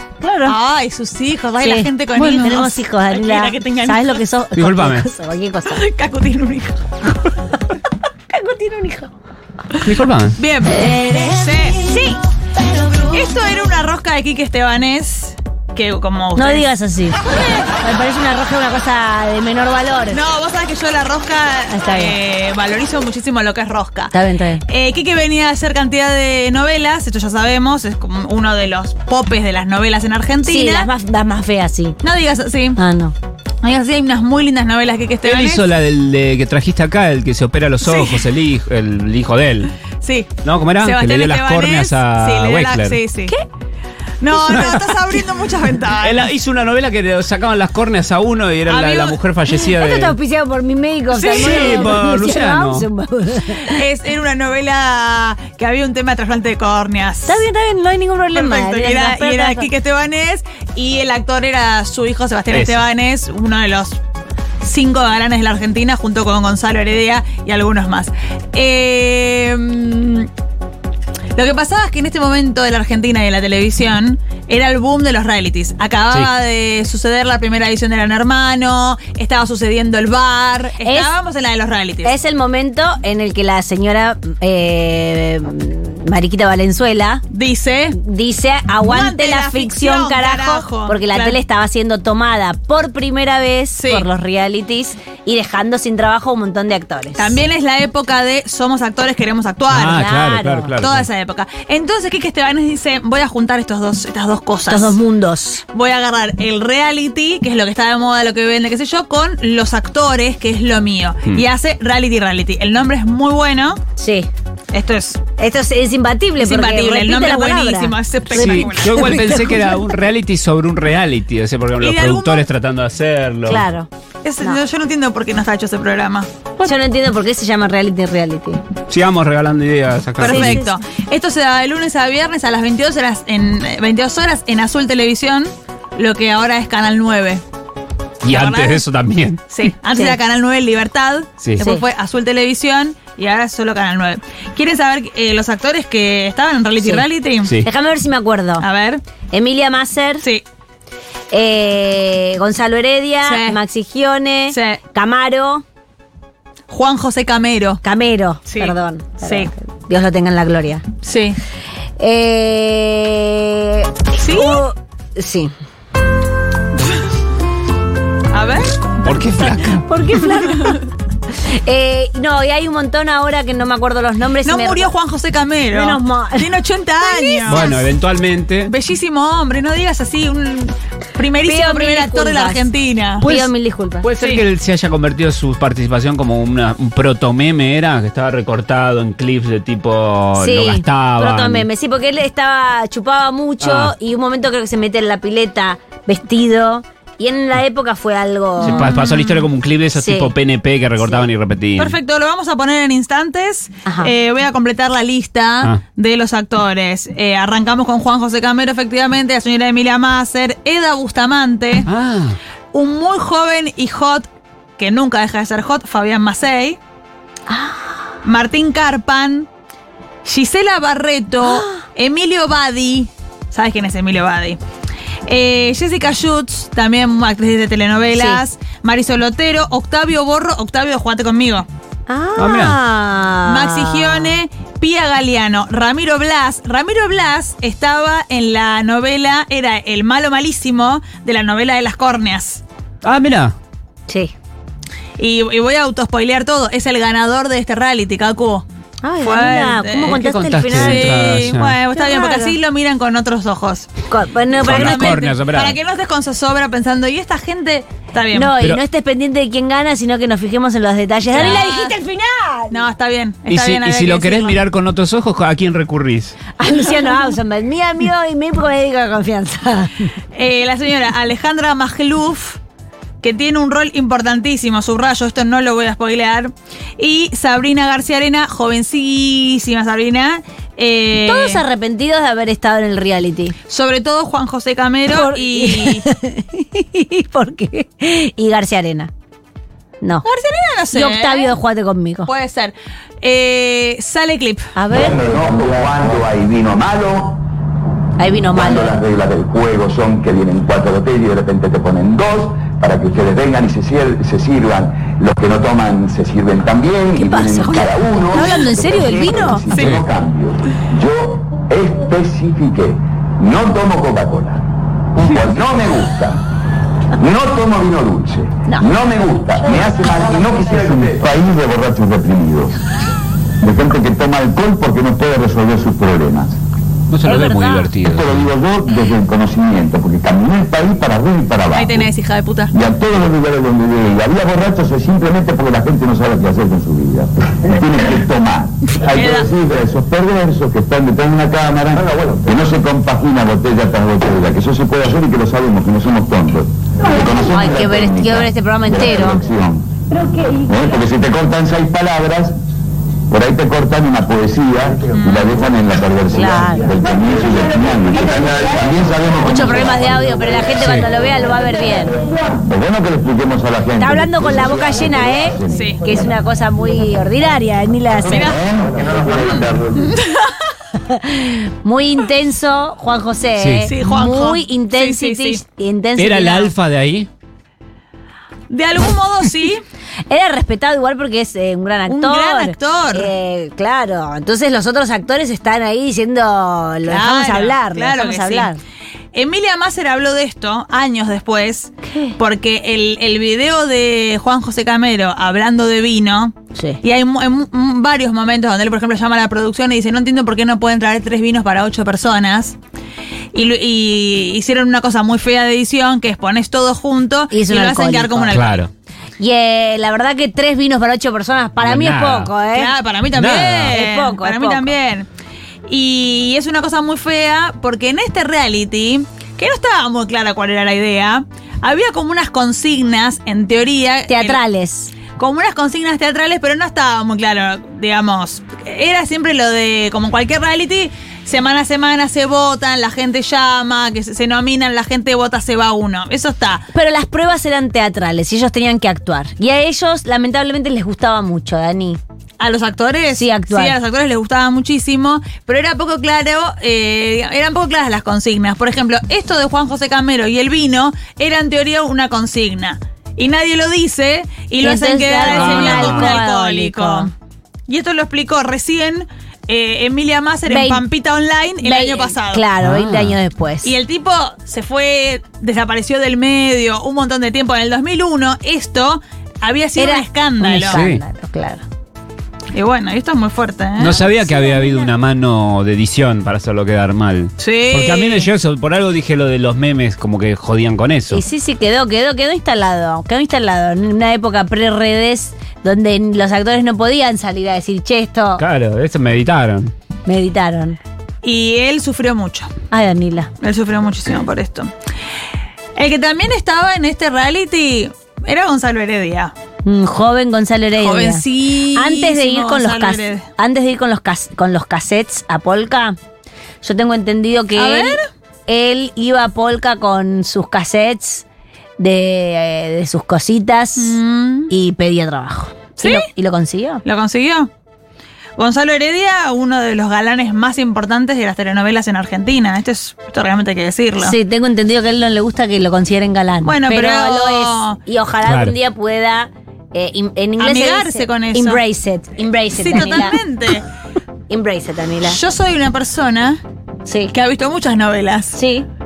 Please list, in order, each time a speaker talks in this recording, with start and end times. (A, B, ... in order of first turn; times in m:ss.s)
0:00.2-0:00.6 A
0:00.5-0:04.2 B
0:01.6-0:05.8 A
0:04.6-0:05.1 C
0:05.7-0:06.8 B
0:08.3-0:09.1 A
0:09.8-0:10.4 C
0:10.4-0:11.8 B
0:11.8-0:12.2 A
0:13.1-0:16.7 B
0:16.4-0:20.2 A
0:20.1-0:24.1 B
0:21.7-0:22.2 A
0:24.1-0:24.6 A
0:24.7-0:30.9 B
0:30.4-0:32.0 A
0:32.0-0:32.8 B
0:32.8-0:33.2 A
0:33.6-0:35.7 B
0:35.2-0:39.7 C
0:37.8-0:38.3 B
0:40.0-0:43.3 B
0:40.4-0:43.0 C
0:44.2-0:46.3 B
0:44.4-0:44.8 C
0:46.0-0:50.2 C
0:48.7-0:49.2 B
0:49.5-0:53.8 A
0:51.2-0:52.0 B
0:51.2-0:52.9 C
0:53.7-0:57.4 B
0:57.3-0:59.7 A
0:58.3-1:04.0 B
1:02.5-1:02.8 C
1:04.6-1:10.3 B
1:11.4-1:22.1 B
1:20.8-1:21.1 A
1:22.0-1:27.2 A
1:27.3-1:28.0 B
1:28.0-1:37.4 A
1:28.8-1:31.4 B
1:33.8-1:34.1 B
1:37.2-1:40.0 B
1:39.7-1:41.1 C
1:39.8-1:40.7 A
1:40.8-1:45.0 B
1:44.7-1:45.6 A
1:45.7-1:53.8 B
1:54.0-1:54.3 A
1:54.7-1:55.2 B
1:55.4-1:59.8 A
1:56.4-1:58.9 B
1:58.3-2:03.6 C
2:01.8-2:02.5 B
2:03.5-2:03.9 A
2:04.2-2:06.3 B
2:06.6-2:08.6 A
2:08.9-2:10.6 C
2:10.2-2:17.4 B
2:10.2-2:10.8 A
2:18.2-2:19.4 C
2:18.3-2:18.8 B
2:19.5-2:27.5 B
2:19.9-2:20.2 A
2:21.6-2:21.8 A
2:27.4-2:27.7 C
2:27.6-2:28.7 A
2:28.6-2:29.0 B
2:29.3-2:30.2 A
2:31.3-2:35.6 A
2:33.2-2:33.6 B
2:34.5-2:34.8 B
2:36.7-2:37.8 B
2:37.8-2:40.8 A
2:38.5-2:39.5 B
2:41.0-2:41.4 B
2:42.0-2:45.5 A
2:44.2-2:44.6 B
2:48.3-2:48.8 B
2:49.0-2:49.8 C
2:49.9-2:54.9 A
2:50.4-2:50.8 B
2:54.4-2:57.8 B
2:55.7-2:57.8 A
2:57.5-2:58.7 C
2:58.7-3:03.3 B
3:01.4-3:02.7 A
3:03.2-3:04.1 A
3:03.2-3:03.5 C
3:04.0-3:11.7 C
3:04.2-3:04.4 B
3:10.4-3:18.9 A
3:13.6-3:13.9 C
3:18.6-3:22.0 C
3:18.6-3:19.5 B
3:19.9-3:20.3 A
3:21.8-3:31.9 B
3:31.9-3:32.4 C
3:32.7-3:36.8 B
3:37.5-3:37.8 A
3:38.2-3:39.5 B
3:40.2-3:44.6 B
3:41.4-3:41.8 A
3:45.3-3:51.7 B
3:48.2-3:48.4 A
3:52.1-3:54.4 A
3:52.4-3:52.8 C
3:53.5-4:02.6 B
4:03.0-4:03.6 C
4:04.1-4:04.3 A
4:05.2-4:08.7 B
4:09.0-4:11.2 A
4:09.2-4:13.9 B
4:10.2-4:11.8 C
4:12.0-4:12.6 A
4:14.1-4:15.2 A
4:14.6-4:15.8 C
4:14.6-4:18.6 B
4:18.3-4:22.8 A
4:21.3-4:22.0 B
4:21.4-4:21.6 C
4:22.7-4:24.6 B
4:23.5-4:26.4 C
4:26.6-4:29.9 A
4:30.4-4:32.6 B
4:33.2-4:41.6 B
4:41.2-4:43.6 A
4:43.7-4:46.0 B
4:45.1-4:49.1 A
4:50.2-4:51.6 B
4:50.9-4:52.3 A
4:52.3-4:54.7 B
4:54.8-4:55.3 A
4:54.9-4:57.4 D
4:58.2-4:59.0 A
4:58.5-5:14.6 D
5:07.2-5:09.7 A
5:15.2-5:16.4 D
5:17.2-5:22.7 D
5:23.6-5:26.6 D
5:27.1-5:28.5 C
5:27.2-5:27.9 A
5:28.0-5:32.1 D
5:31.7-5:32.7 B
5:32.7-5:49.9 D
5:39.0-5:39.5 B
5:47.4-5:49.4 A
5:50.5-5:52.6 D
5:53.3-6:00.7 D
5:55.2-5:55.6 B
5:56.3-5:57.0 A
5:59.4-6:02.2 A
6:00.8-6:01.1 C
6:02.3-6:06.3 D
6:04.0-6:08.6 A
6:05.7-6:06.0 B
6:08.1-6:10.2 D
6:08.2-6:08.6 B
6:09.4-6:10.6 B
6:11.1-6:16.7 A
6:13.6-6:13.9 C
6:13.9-6:15.6 B
6:16.2-6:17.3 C
6:18.7-6:19.8 B
6:20.3-6:28.8 A
6:22.1-6:23.3 B
6:27.1-6:28.7 B
6:29.3-6:42.8 B
6:32.0-6:32.4 A
6:36.8-6:37.0 A
6:43.5-6:48.8 B
6:47.5-6:48.6 A
6:48.5-6:48.9 C
6:49.4-6:52.9 A
6:51.8-6:52.5 C
6:52.7-6:55.3 B
6:53.3-6:54.0 C
6:53.9-6:54.9 A
6:55.9-7:04.6 B
7:04.3-7:05.1 A
7:05.3-7:16.9 B
7:16.9-7:22.2 A
7:22.6-7:37.3 B
7:23.4-7:24.0 A
7:34.8-7:37.3 A
7:35.4-7:36.4 C
7:37.9-7:42.6 B
7:40.7-7:41.0 A
7:41.8-7:43.9 A
7:42.8-7:43.4 C
7:43.8-7:51.0 B
7:50.0-7:51.8 A
7:50.7-7:51.2 C
7:52.7-7:54.2 B
7:54.0-8:01.4 C
7:54.1-7:55.1 A
7:57.6-7:58.5 B
8:01.3-8:08.6 A
8:08.6-8:09.9 C
8:10.3-8:11.0 A
8:11.4-8:12.7 B
8:12.9-8:13.5 A
8:13.6-8:14.9 B
8:16.0-8:19.5 B
8:19.8-8:21.4 A
8:21.0-8:23.5 B
8:22.0-8:26.2 A
8:26.8-8:31.4 A
8:27.8-8:28.2 B
8:32.0-8:34.2 A
8:34.0-8:34.7 B
8:34.7-8:37.0 A
8:36.0-8:36.3 B
8:37.0-8:37.7 B
8:38.6-8:44.4 B
8:44.2-8:53.4 A
8:46.6-8:48.0 B
8:48.4-8:48.8 C
8:50.6-8:51.8 B
8:52.8-8:53.8 B
8:54.5-8:55.4 A
8:55.3-8:56.6 B
8:57.1-8:57.3 A
8:57.3-8:58.6 B
8:58.5-8:58.9 A